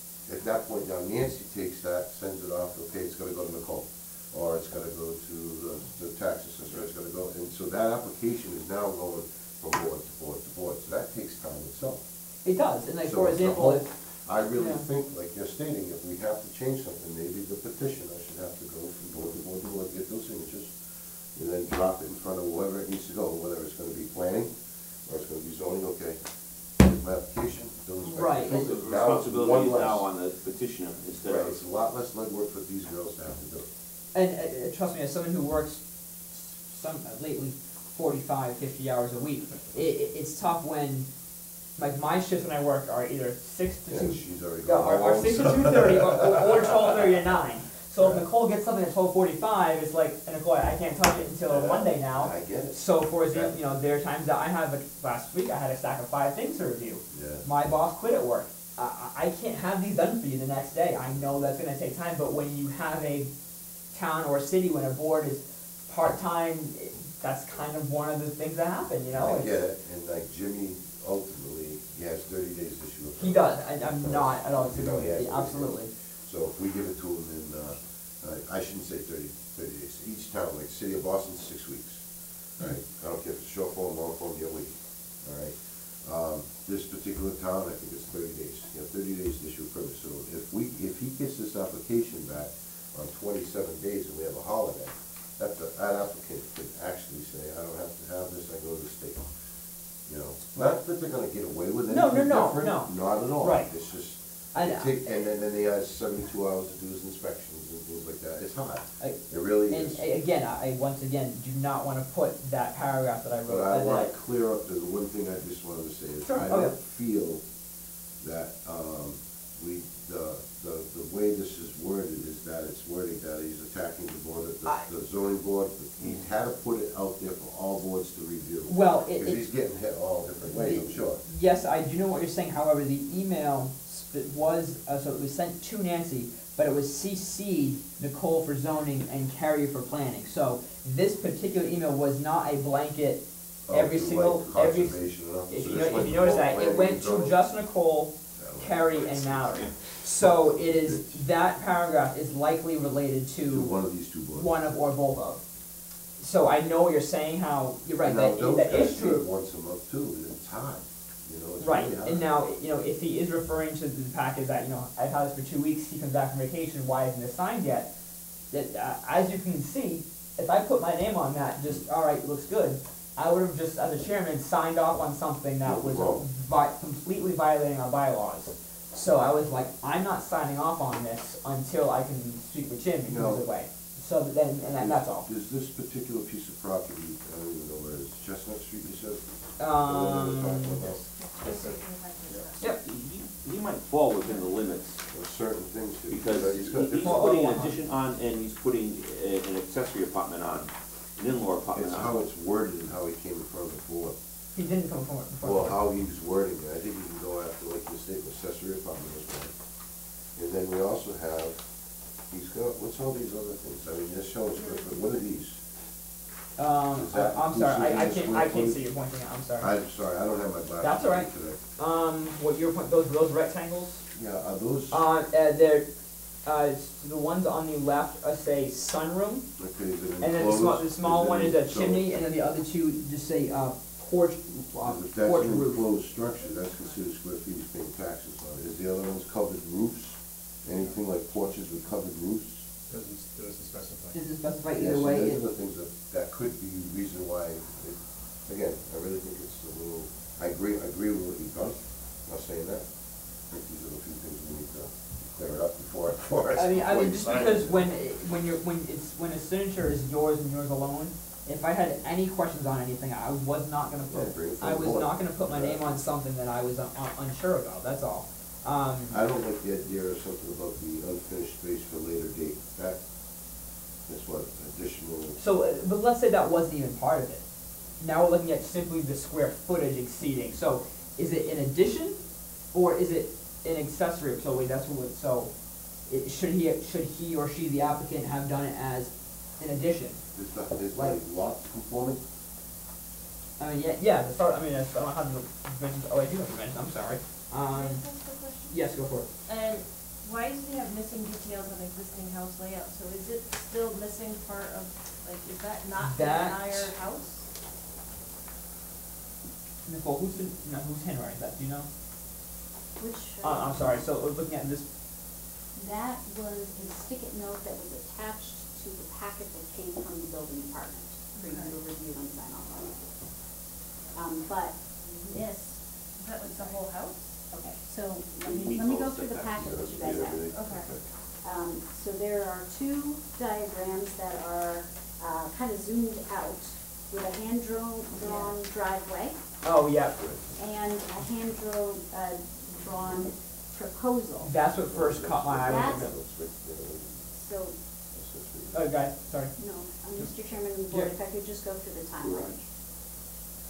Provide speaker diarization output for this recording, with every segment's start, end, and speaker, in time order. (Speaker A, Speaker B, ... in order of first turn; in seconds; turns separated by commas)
Speaker A: 0.2-12.0, Speaker B: 12.4-13.9, Speaker A: 13.0-20.7, Speaker B: 14.6-14.8, Speaker A: 21.3-24.5, Speaker A: 25.1-26.2, Speaker A: 26.8-30.1, Speaker B: 28.0-28.6, Speaker C: 28.5-31.5, Speaker A: 31.2-33.6, Speaker B: 34.1-41.1, Speaker B: 41.8-63.3, Speaker A: 43.9-47.0, Speaker A: 48.0-48.2, Speaker A: 51.5-52.8, Speaker A: 53.3-53.6, Speaker A: 57.1-57.4, Speaker A: 61.2-61.4, Speaker B: 63.9-69.6, Speaker A: 69.1-82.0, Speaker B: 73.2-75.9, Speaker A: 82.6-99.3, Speaker A: 100.0-110.0, Speaker B: 101.9-103.7, Speaker B: 104.5-105.2, Speaker B: 109.0-114.1, Speaker A: 113.5-117.4, Speaker B: 116.2-116.7, Speaker A: 118.2-131.2, Speaker B: 128.7-129.4, Speaker B: 130.4-153.7, Speaker A: 143.7-147.4, Speaker A: 148.4-151.2, Speaker A: 153.5-154.6, Speaker B: 154.3-155.4, Speaker B: 156.2-159.2, Speaker A: 158.0-162.2, Speaker B: 161.6-167.9, Speaker B: 168.5-185.3, Speaker A: 175.6-176.2, Speaker A: 183.0-183.4, Speaker A: 184.7-191.0, Speaker B: 189.6-190.8, Speaker D: 191.1-192.8, Speaker E: 191.5-192.5, Speaker C: 192.8-195.0, Speaker A: 195.1-197.4, Speaker C: 196.1-202.1, Speaker B: 196.9-197.8, Speaker A: 201.7-204.2, Speaker B: 204.5-205.8, Speaker A: 205.4-209.5, Speaker A: 210.3-211.6, Speaker A: 212.3-215.6, Speaker D: 214.6-215.0, Speaker B: 216.6-219.7, Speaker A: 216.9-218.8, Speaker A: 219.6-221.6, Speaker B: 220.8-224.0, Speaker A: 224.1-225.0, Speaker B: 224.9-225.9, Speaker B: 226.4-229.5, Speaker A: 229.6-232.1, Speaker B: 230.2-235.8, Speaker A: 234.8-242.6, Speaker E: 242.9-244.2, Speaker B: 244.1-245.4, Speaker A: 244.8-252.8, Speaker A: 253.5-257.8, Speaker B: 256.5-269.1, Speaker E: 257.2-257.6, Speaker A: 264.1-265.8, Speaker A: 269.1-273.0, Speaker A: 274.1-275.4, Speaker B: 275.4-277.4, Speaker B: 278.0-282.2, Speaker B: 282.7-285.5, Speaker B: 286.1-290.2, Speaker A: 290.3-292.2, Speaker B: 293.6-298.0, Speaker D: 297.7-298.8, Speaker B: 298.7-299.3, Speaker D: 299.4-307.5, Speaker B: 306.0-306.9, Speaker B: 309.8-311.9, Speaker F: 313.0-313.9, Speaker B: 313.4-314.8, Speaker F: 315.8-323.1, Speaker D: 321.3-321.7, Speaker F: 324.1-325.8, Speaker D: 326.2-327.3, Speaker F: 327.5-330.5, Speaker C: 328.4-330.4, Speaker A: 329.6-331.0, Speaker D: 330.4-330.9, Speaker F: 331.4-339.4, Speaker B: 339.6-340.2, Speaker F: 340.6-344.5, Speaker B: 344.4-346.1, Speaker A: 344.7-347.3, Speaker F: 345.6-346.0, Speaker F: 347.3-347.7, Speaker A: 348.1-348.8, Speaker B: 348.7-349.5, Speaker F: 349.6-352.6, Speaker C: 352.2-352.5